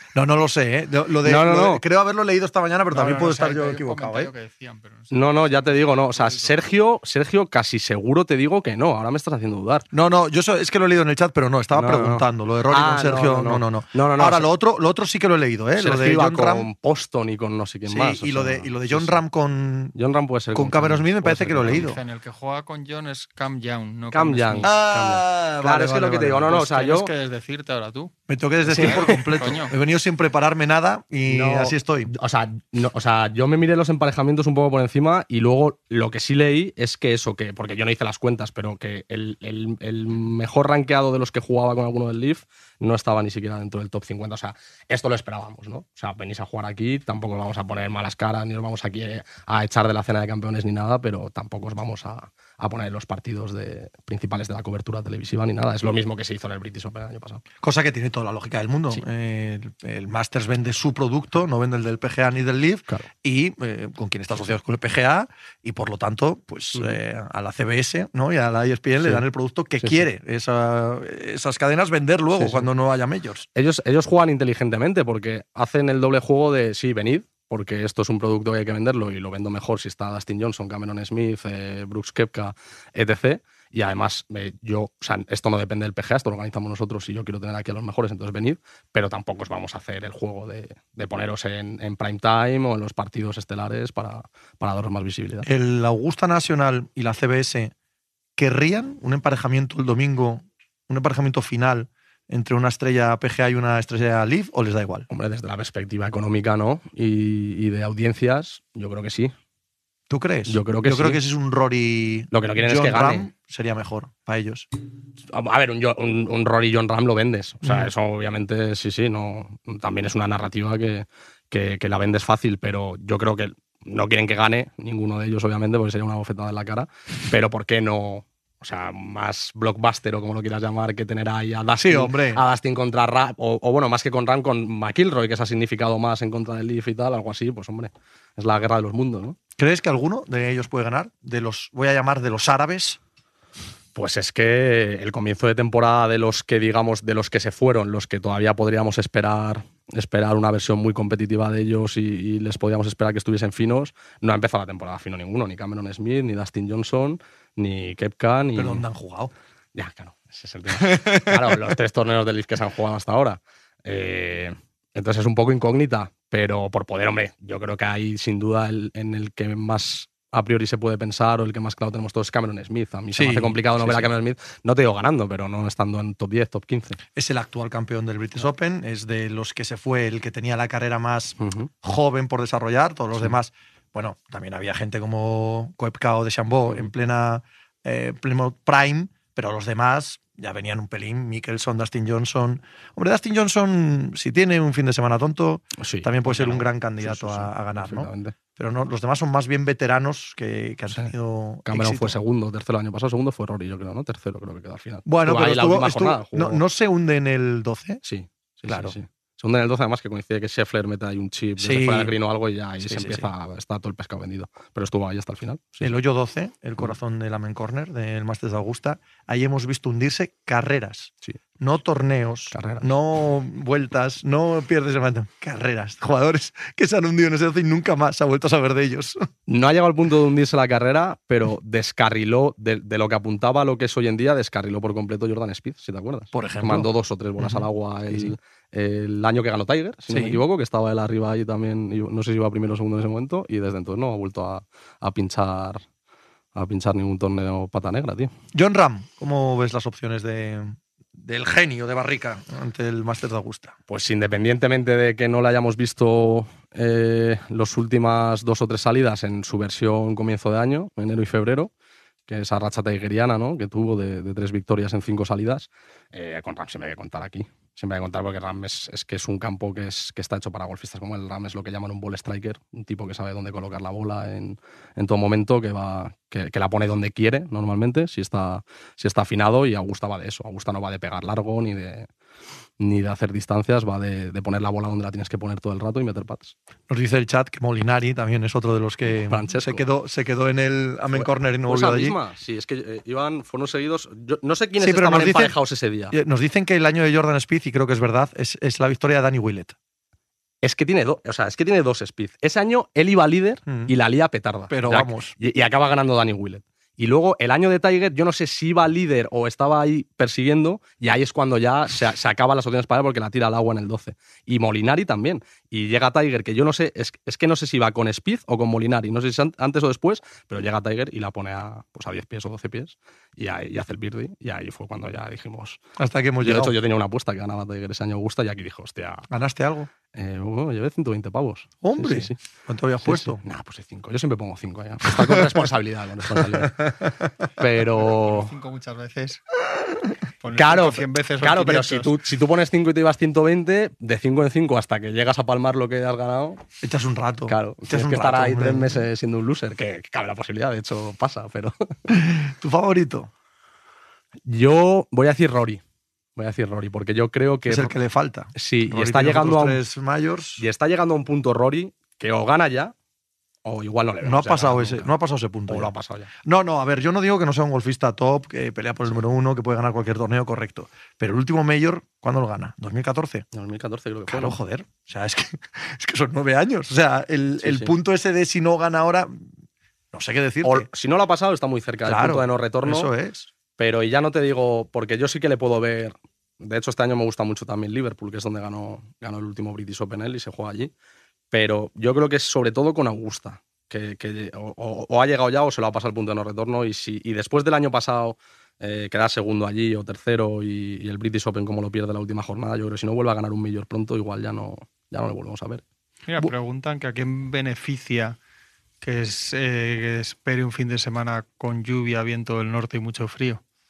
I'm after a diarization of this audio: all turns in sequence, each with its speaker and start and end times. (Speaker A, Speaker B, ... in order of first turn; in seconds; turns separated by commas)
Speaker A: 0.1-4.3, Speaker B: 1.2-1.8, Speaker C: 2.9-6.6, Speaker B: 5.1-9.9, Speaker A: 9.9-16.7, Speaker B: 11.7-14.5, Speaker B: 15.8-19.2, Speaker A: 17.9-19.9, Speaker B: 19.9-21.9, Speaker A: 20.5-22.0, Speaker C: 21.6-24.7, Speaker B: 24.1-27.1, Speaker A: 24.6-26.6, Speaker C: 26.5-28.1, Speaker A: 28.3-32.1, Speaker B: 28.6-29.4, Speaker C: 28.8-29.7, Speaker B: 31.3-57.4, Speaker A: 57.6-73.5, Speaker B: 69.8-70.1, Speaker B: 72.3-72.7, Speaker B: 73.5-95.5, Speaker A: 95.4-97.7, Speaker A: 98.4-105.1, Speaker B: 105.1-109.3, Speaker A: 110.1-114.7, Speaker B: 110.5-111.2, Speaker B: 112.3-113.3, Speaker B: 115.3-139.4, Speaker A: 117.6-117.9, Speaker A: 131.8-132.4, Speaker A: 139.6-143.0, Speaker B: 143.9-158.8, Speaker A: 158.6-159.3, Speaker B: 159.8-177.0, Speaker A: 160.8-161.4, Speaker A: 173.1-174.1, Speaker A: 177.2-202.2, Speaker B: 181.4-181.7, Speaker B: 195.8-198.3, Speaker B: 201.7-206.6, Speaker A: 205.1-208.0, Speaker B: 208.0-215.9, Speaker A: 208.7-209.0, Speaker A: 211.6-212.2, Speaker A: 212.8-213.3, Speaker A: 215.8-229.3, Speaker B: 222.5-222.9, Speaker B: 229.5-245.8, Speaker A: 236.3-238.3, Speaker A: 240.1-240.4, Speaker B: 246.6-248.3, Speaker A: 248.5-253.8, Speaker B: 253.9-261.7, Speaker B: 262.3-282.1, Speaker B: 282.8-286.6, Speaker A: 286.9-292.2, Speaker B: 289.1-289.9, Speaker B: 291.1-296.1, Speaker A: 294.8-295.6, Speaker A: 296.1-299.8, Speaker B: 300.6-325.8, Speaker A: 303.7-303.9, Speaker A: 304.7-305.3, Speaker A: 326.0-326.8, Speaker B: 326.4-329.3, Speaker A: 329.3-329.9, Speaker B: 330.1-332.4, Speaker A: 331.8-333.4, Speaker B: 333.0-336.9, Speaker A: 335.1-335.6, Speaker A: 336.3-337.2, Speaker B: 337.6-338.5, Speaker C: 337.9-339.4, Speaker C: 340.4-342.1, Speaker B: 340.5-346.6, Speaker A: 346.8-349.0, Speaker B: 347.5-351.9, Speaker A: 352.1-353.3, Speaker B: 354.5-355.8, Speaker B: 356.4-357.9, Speaker A: 357.7-360.6, Speaker B: 358.5-359.8, Speaker B: 360.6-362.9, Speaker B: 363.6-365.1, Speaker A: 364.2-365.9, Speaker B: 365.7-366.3, Speaker A: 366.4-373.4, Speaker B: 373.5-374.6, Speaker A: 374.3-379.5, Speaker B: 377.6-377.9, Speaker A: 380.1-380.9, Speaker B: 380.6-383.1, Speaker A: 382.1-383.5, Speaker B: 383.8-390.9, Speaker B: 391.5-405.8, Speaker C: 406.3-408.4, Speaker C: 409.0-413.6